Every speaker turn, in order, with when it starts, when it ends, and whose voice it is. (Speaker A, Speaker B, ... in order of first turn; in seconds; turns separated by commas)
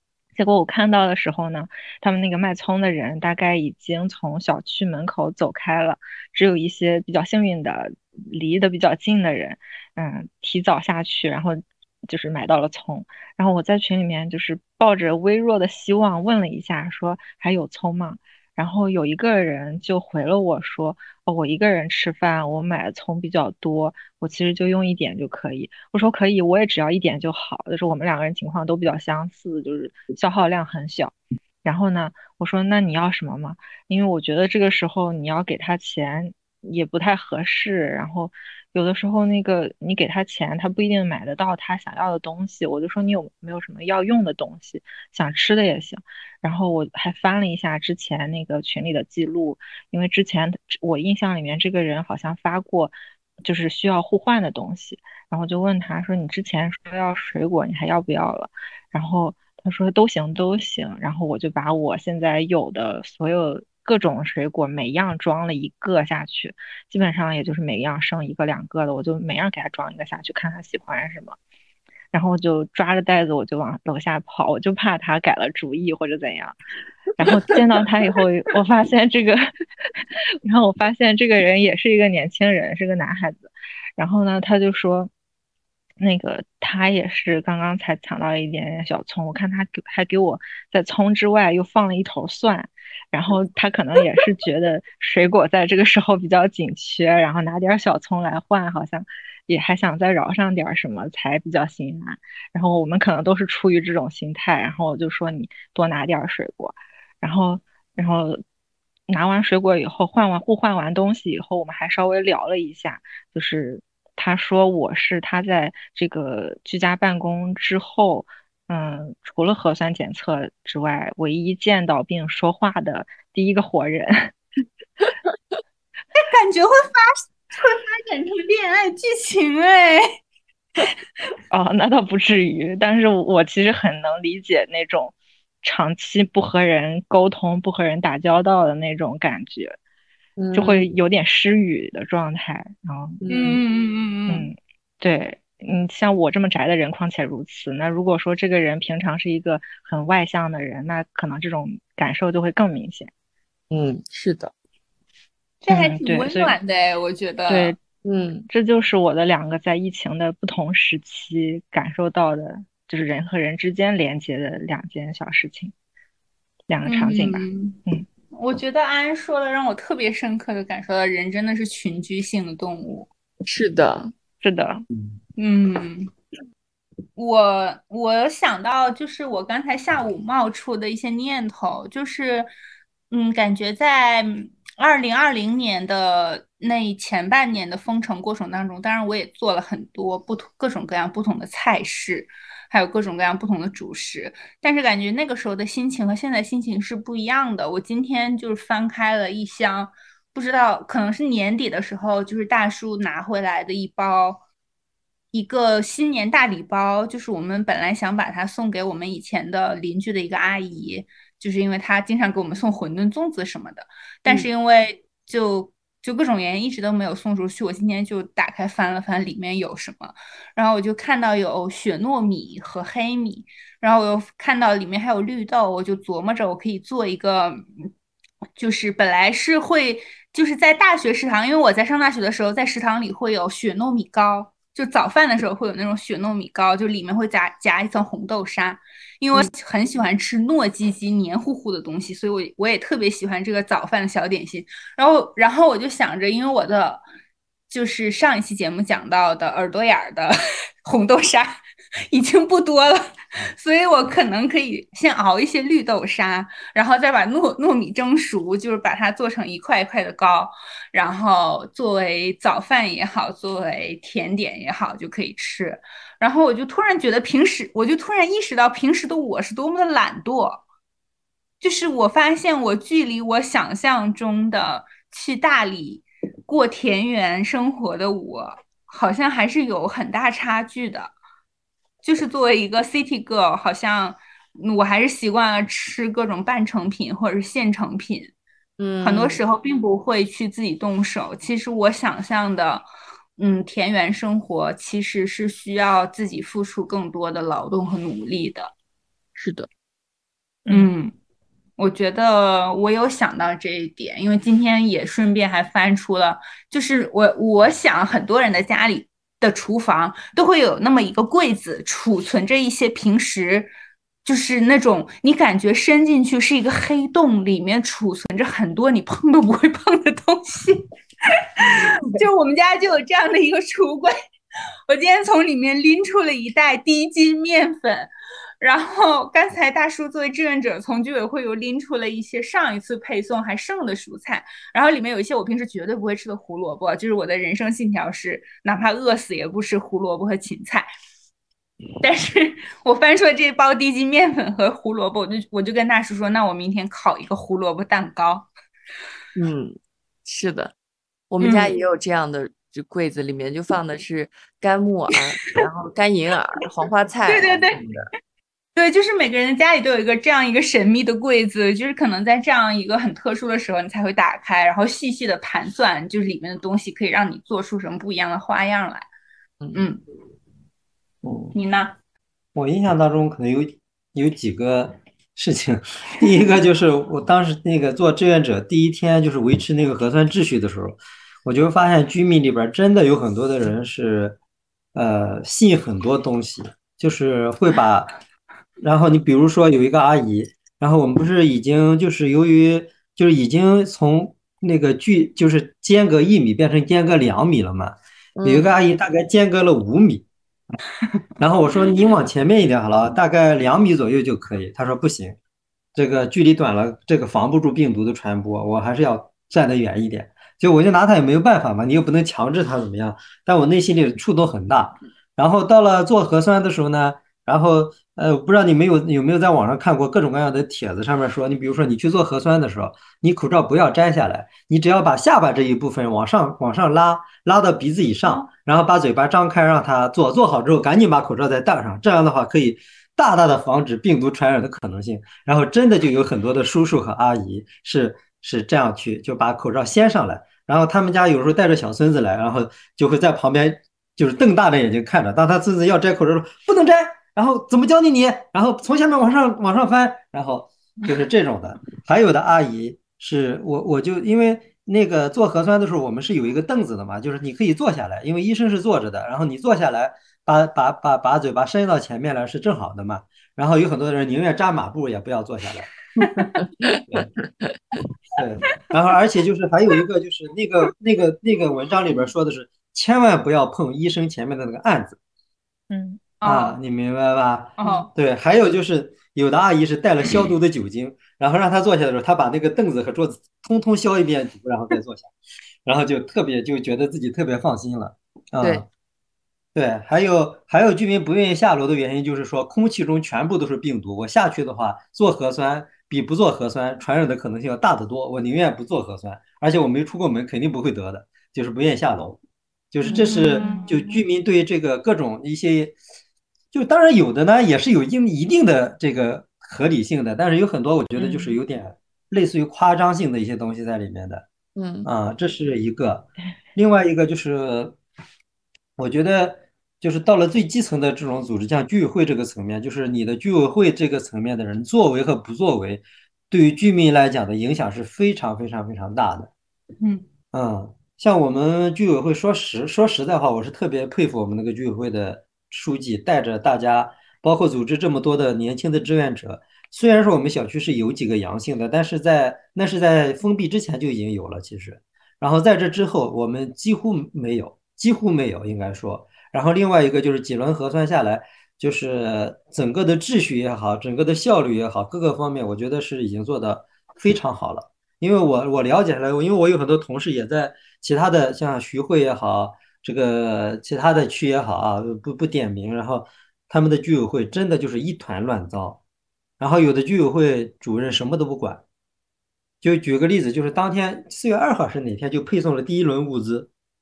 Speaker A: 0.3-71.4, Speaker A: 72.1-76.6, Speaker A: 77.2-79.5, Speaker A: 80.4-85.1, Speaker A: 86.0-108.4, Speaker A: 109.1-124.3, Speaker B: 126.2-130.1, Speaker A: 131.5-139.8, Speaker C: 140.4-140.9, Speaker A: 140.5-143.2, Speaker C: 143.2-143.6, Speaker B: 143.3-144.5, Speaker A: 144.3-153.1, Speaker C: 153.7-154.5, Speaker B: 155.6-157.8, Speaker A: 155.7-156.6, Speaker A: 157.5-157.8, Speaker C: 158.1-158.5, Speaker A: 158.5-165.7, Speaker A: 166.7-168.1, Speaker B: 166.8-167.8, Speaker B: 168.4-173.1, Speaker C: 173.5-174.1, Speaker A: 174.4-174.8, Speaker B: 175.4-176.1, Speaker B: 177.2-182.5, Speaker B: 183.1-204.4, Speaker B: 205.3-227.7, Speaker B: 228.6-247.0, Speaker B: 247.7-251.6, Speaker B: 252.1-270.6, Speaker B: 271.6-281.1, Speaker B: 282.0-288.3, Speaker C: 288.8-289.4, Speaker B: 289.0-298.7, Speaker C: 299.4-299.7, Speaker B: 300.7-301.1, Speaker B: 301.8-313.7, Speaker B: 314.2-320.9, Speaker B: 321.4-324.1, Speaker B: 324.9-340.9, Speaker B: 342.0-348.5, Speaker C: 349.4-350.7, Speaker C: 351.3-357.7, Speaker B: 351.4-351.7, Speaker B: 357.3-357.8, Speaker B: 358.8-369.1, Speaker B: 369.7-370.0, Speaker D: 371.2-371.6, Speaker B: 371.5-371.9, Speaker D: 372.6-384.4, Speaker D: 384.9-388.2, Speaker D: 388.8-400.3, Speaker C: 398.4-398.7, Speaker D: 401.4-405.4, Speaker D: 405.9-466.5, Speaker C: 466.8-467.7, Speaker D: 468.4-475.2, Speaker A: 475.9-476.2, Speaker B: 476.4-476.8, Speaker D: 476.4-485.3, Speaker B: 477.8-478.1, Speaker D: 485.9-488.9, Speaker D: 489.8-502.4, Speaker D: 502.9-506.0, Speaker B: 503.1-504.2, Speaker A: 503.6-503.9, Speaker D: 506.7-514.5, Speaker A: 511.2-511.6, Speaker C: 514.8-515.1, Speaker D: 515.1-518.0, Speaker D: 519.0-529.5, Speaker B: 530.0-530.3, Speaker D: 530.5-569.0, Speaker D: 569.6-571.8, Speaker D: 572.8-576.7